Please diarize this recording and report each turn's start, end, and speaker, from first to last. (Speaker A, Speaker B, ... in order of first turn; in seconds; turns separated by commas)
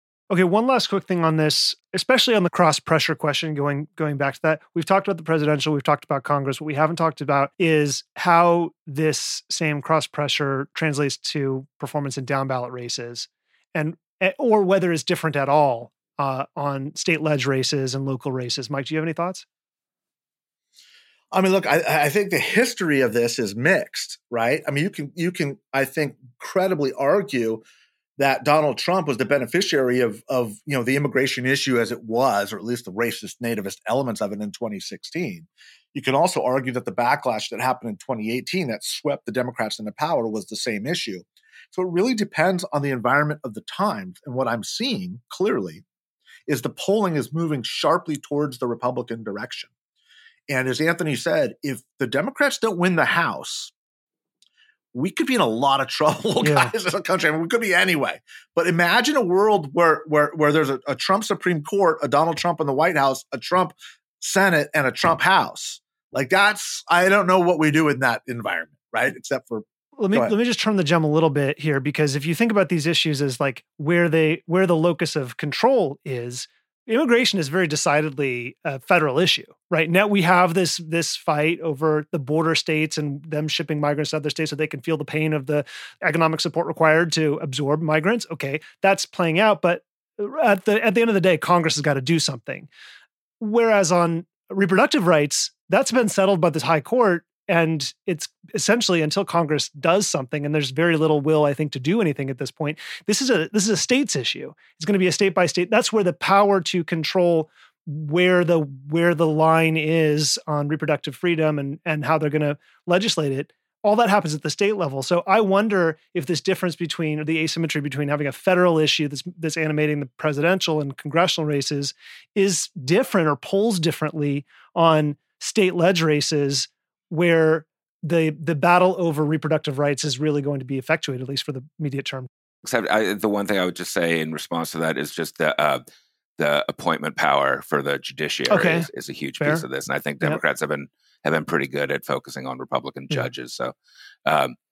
Speaker A: 0.3-19.4, Speaker B: 21.3-27.6, Speaker B: 28.2-45.8, Speaker B: 46.5-49.7, Speaker B: 50.5-53.7, Speaker B: 54.9-70.3, Speaker A: 56.4-56.7, Speaker A: 70.0-92.7, Speaker A: 93.4-132.3, Speaker C: 132.6-135.8, Speaker C: 136.4-143.7, Speaker A: 138.5-138.9, Speaker A: 139.4-139.6, Speaker C: 144.3-144.6